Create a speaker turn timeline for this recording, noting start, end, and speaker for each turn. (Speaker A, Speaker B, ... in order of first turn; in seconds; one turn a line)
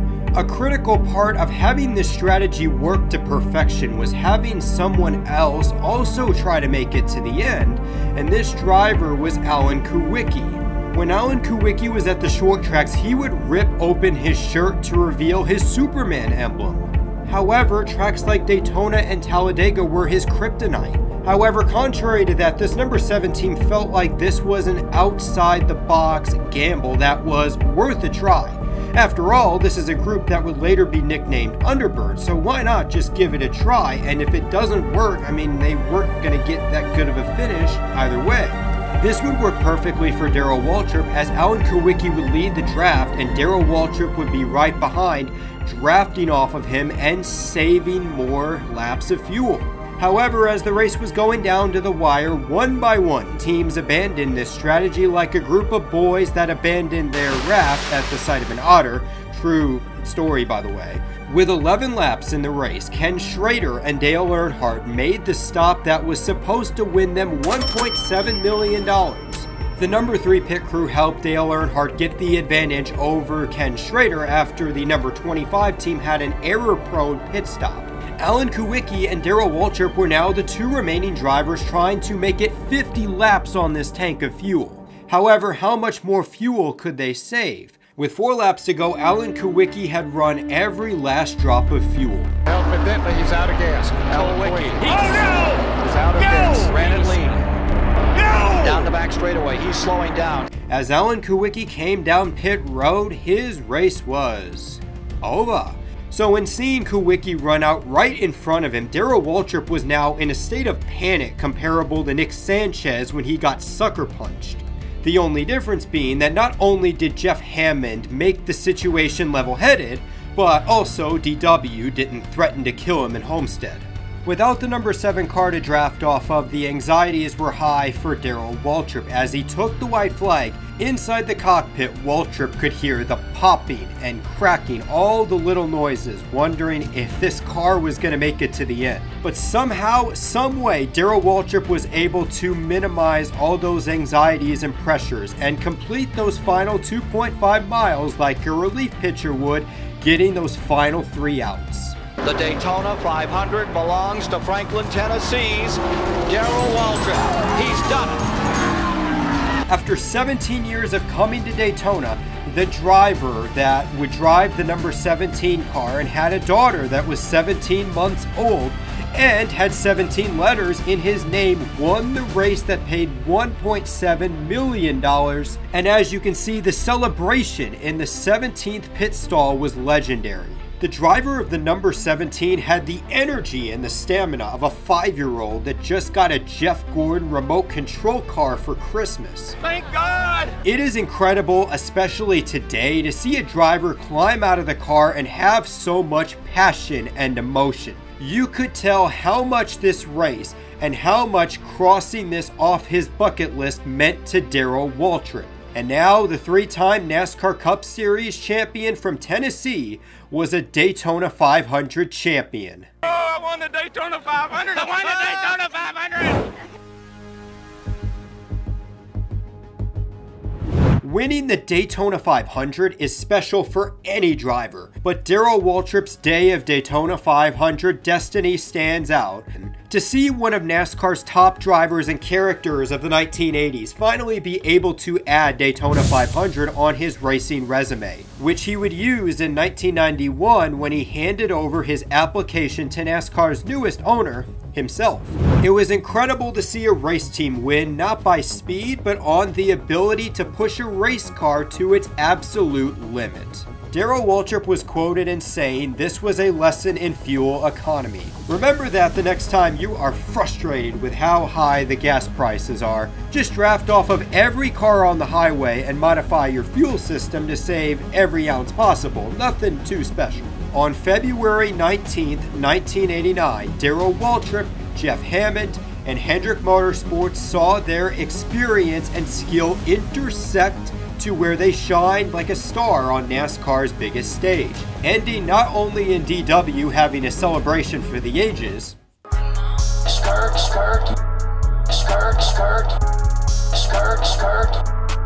Speaker A: 0.4-92.3
Speaker B: 92.5-94.9
Speaker C: 94.1-97.4
Speaker B: 95.7-96.8
Speaker C: 98.6-100.5
Speaker A: 100.7-152.0
Speaker C: 152.2-158.3
Speaker A: 159.7-189.6
Speaker D: 189.7-190.5
Speaker A: 190.6-212.9
Speaker D: 213.1-216.3
Speaker A: 221.0-289.0
Speaker E: 289.9-291.2
Speaker E: 291.9-293.0
Speaker E: 293.7-294.8